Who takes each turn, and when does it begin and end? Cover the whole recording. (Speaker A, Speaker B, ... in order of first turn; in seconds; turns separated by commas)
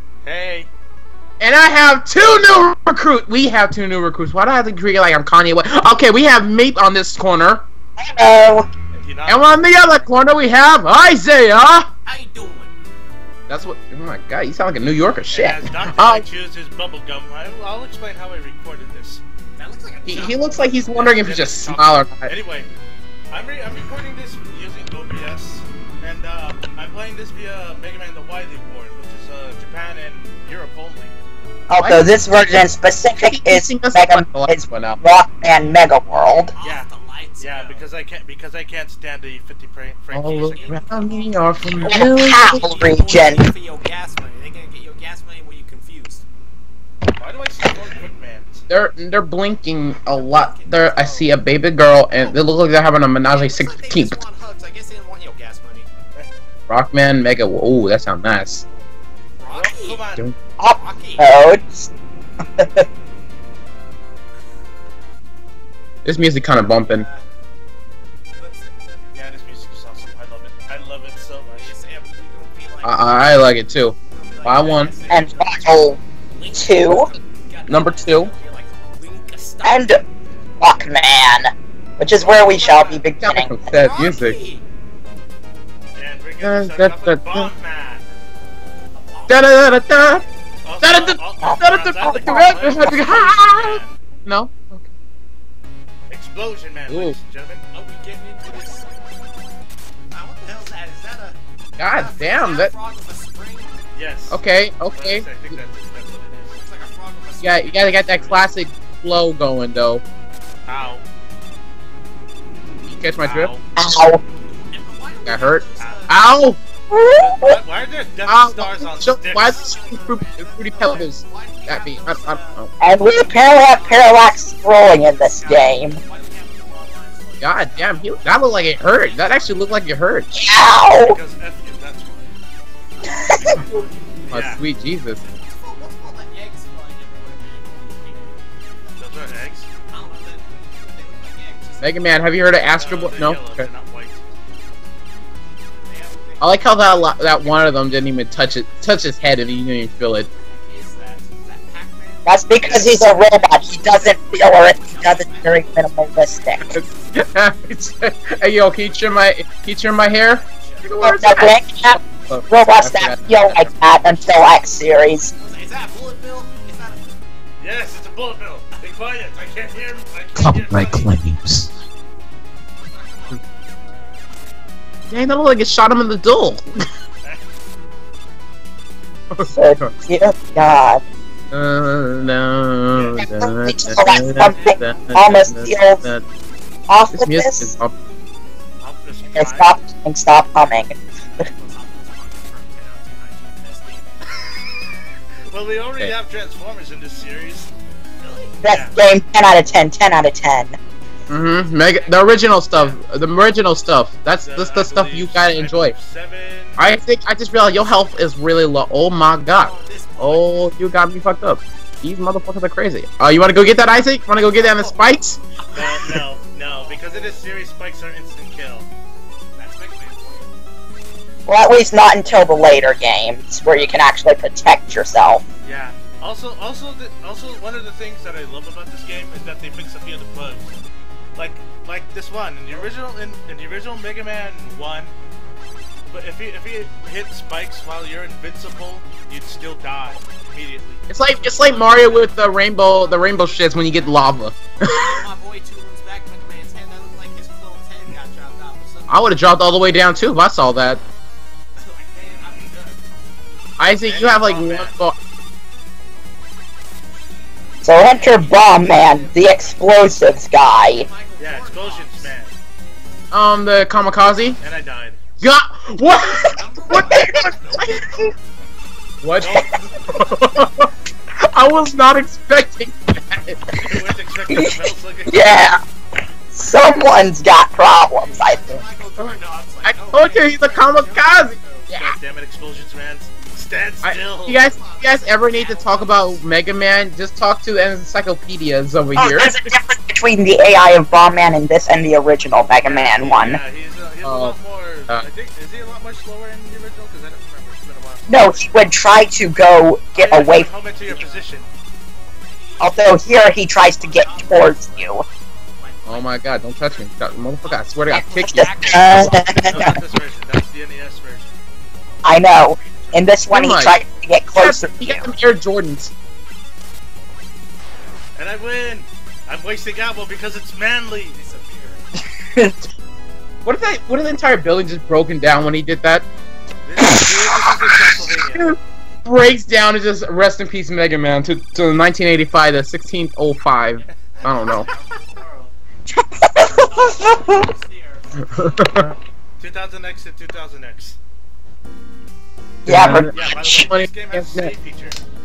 Speaker A: 0.2-0.7, Speaker B: 1.4-7.7, Speaker A: 2.2-2.7, Speaker C: 8.0-8.7, Speaker A: 8.9-10.1, Speaker B: 9.3-11.9, Speaker D: 12.1-12.8, Speaker B: 13.5-16.2, Speaker A: 15.3-19.2, Speaker D: 19.6-21.0, Speaker B: 20.1-22.3, Speaker A: 20.9-22.7, Speaker A: 23.3-31.1, Speaker C: 31.7-36.5, Speaker B: 31.8-32.1, Speaker B: 33.2-35.0, Speaker D: 36.5-37.9, Speaker A: 36.6-36.9, Speaker A: 37.4-40.8, Speaker B: 40.1-42.6, Speaker D: 40.5-46.2, Speaker C: 41.8-43.5, Speaker A: 47.2-48.6, Speaker B: 48.7-54.2, Speaker D: 50.1-51.3, Speaker D: 52.1-52.4, Speaker D: 53.3-55.9, Speaker B: 56.7-58.6, Speaker D: 59.4-60.0, Speaker A: 59.5-60.3, Speaker C: 60.6-61.9, Speaker D: 60.7-61.6, Speaker C: 62.6-62.9, Speaker B: 66.0-67.1, Speaker D: 66.7-67.2, Speaker D: 68.3-69.1, Speaker A: 69.1-71.7, Speaker D: 71.6-80.0, Speaker B: 72.8-74.9, Speaker C: 75.1-76.0, Speaker C: 76.5-77.1, Speaker B: 77.7-78.3, Speaker C: 79.6-80.0, Speaker C: 80.6-83.5, Speaker A: 82.2-83.0, Speaker D: 82.5-83.0, Speaker B: 83.2-84.4, Speaker D: 83.7-84.6, Speaker A: 86.0-88.1, Speaker B: 86.4-87.5, Speaker D: 89.0-89.6, Speaker B: 89.3-90.2, Speaker A: 90.6-94.0, Speaker B: 90.8-94.9, Speaker C: 91.4-93.0, Speaker A: 96.1-97.6, Speaker B: 96.9-97.2, Speaker D: 97.7-98.9, Speaker D: 100.1-103.8, Speaker B: 101.8-102.7, Speaker A: 103.9-104.4, Speaker B: 104.3-105.4, Speaker A: 104.9-106.6, Speaker D: 106.6-108.5, Speaker B: 107.4-110.0, Speaker A: 110.7-111.0, Speaker B: 112.9-113.5, Speaker A: 113.2-113.7, Speaker C: 113.8-114.2, Speaker D: 114.5-116.2, Speaker B: 115.3-116.6, Speaker A: 115.8-116.1, Speaker C: 116.9-117.6, Speaker A: 117.2-119.5, Speaker B: 118.3-122.7, Speaker D: 119.4-130.0, Speaker C: 122.8-126.0, Speaker B: 127.4-130.3, Speaker C: 130.3-131.2, Speaker A: 130.9-132.3, Speaker D: 133.0-139.2, Speaker A: 134.3-134.6, Speaker B: 134.3-135.2, Speaker A: 139.0-139.7, Speaker D: 139.9-142.1, Speaker B: 141.8-143.7, Speaker A: 142.8-144.2, Speaker D: 145.8-147.8, Speaker B: 146.4-150.3, Speaker D: 150.4-157.2, Speaker C: 152.3-156.7, Speaker B: 156.7-163.7, Speaker D: 160.3-161.1, Speaker C: 161.0-165.3, Speaker D: 165.4-167.4, Speaker A: 167.6-171.2, Speaker B: 170.4-171.7, Speaker D: 172.8-173.4, Speaker B: 175.1-176.6, Speaker B: 179.3-179.9, Speaker C: 179.4-181.0, Speaker B: 181.5-186.2, Speaker A: 182.9-183.3, Speaker C: 183.4-186.1, Speaker D: 184.1-185.2, Speaker C: 186.9-187.7, Speaker B: 187.1-187.9, Speaker A: 188.8-189.8, Speaker C: 189.3-191.4, Speaker D: 191.2-194.5, Speaker A: 195.5-197.7, Speaker D: 198.2-198.7, Speaker C: 198.6-200.8, Speaker A: 198.7-199.0, Speaker D: 201.1-203.1, Speaker B: 201.3-205.9, Speaker A: 204.4-206.8, Speaker B: 206.8-215.4, Speaker D: 209.5-210.8, Speaker D: 214.4-217.4, Speaker A: 215.7-218.9, Speaker D: 219.6-220.5, Speaker C: 221.5-225.4, Speaker A: 225.6-230.7, Speaker A: 231.4-235.1, Speaker A: 236.1-241.1, Speaker B: 241.1-245.2, Speaker D: 241.3-249.4, Speaker B: 249.1-251.0, Speaker D: 251.8-253.0, Speaker B: 253.8-255.2, Speaker A: 254.0-255.0, Speaker D: 254.4-254.7, Speaker D: 257.8-262.4, Speaker C: 257.8-261.1, Speaker A: 261.4-262.5, Speaker B: 263.3-264.6, Speaker A: 264.6-265.2, Speaker B: 265.4-268.0, Speaker D: 266.3-268.2, Speaker C: 266.9-267.5, Speaker B: 269.2-270.9, Speaker A: 269.4-269.9, Speaker B: 271.4-273.6, Speaker A: 273.8-275.7, Speaker C: 274.5-275.8, Speaker C: 276.5-278.8, Speaker D: 278.1-281.9, Speaker B: 279.9-282.1, Speaker A: 281.9-284.6, Speaker B: 284.0-289.7, Speaker D: 284.6-286.4, Speaker C: 289.2-293.6, Speaker A: 292.7-298.9, Speaker B: 294.2-294.6, Speaker C: 298.3-300.7, Speaker A: 300.1-301.7, Speaker D: 300.6-301.7, Speaker D: 302.4-309.9, Speaker C: 302.8-305.2, Speaker B: 306.1-309.4, Speaker C: 308.1-310.0, Speaker A: 309.6-311.5, Speaker D: 312.1-314.3, Speaker C: 312.2-315.3, Speaker B: 313.5-314.0, Speaker B: 314.6-316.1, Speaker A: 318.4-321.4, Speaker D: 321.3-322.2, Speaker B: 323.6-326.2, Speaker A: 326.8-328.7, Speaker B: 328.5-334.9, Speaker D: 334.0-335.8, Speaker A: 334.6-335.0, Speaker C: 336.1-337.7, Speaker D: 336.6-339.1, Speaker B: 338.8-339.1, Speaker A: 339.6-341.2, Speaker C: 342.9-343.8, Speaker B: 342.9-344.7, Speaker A: 343.3-345.2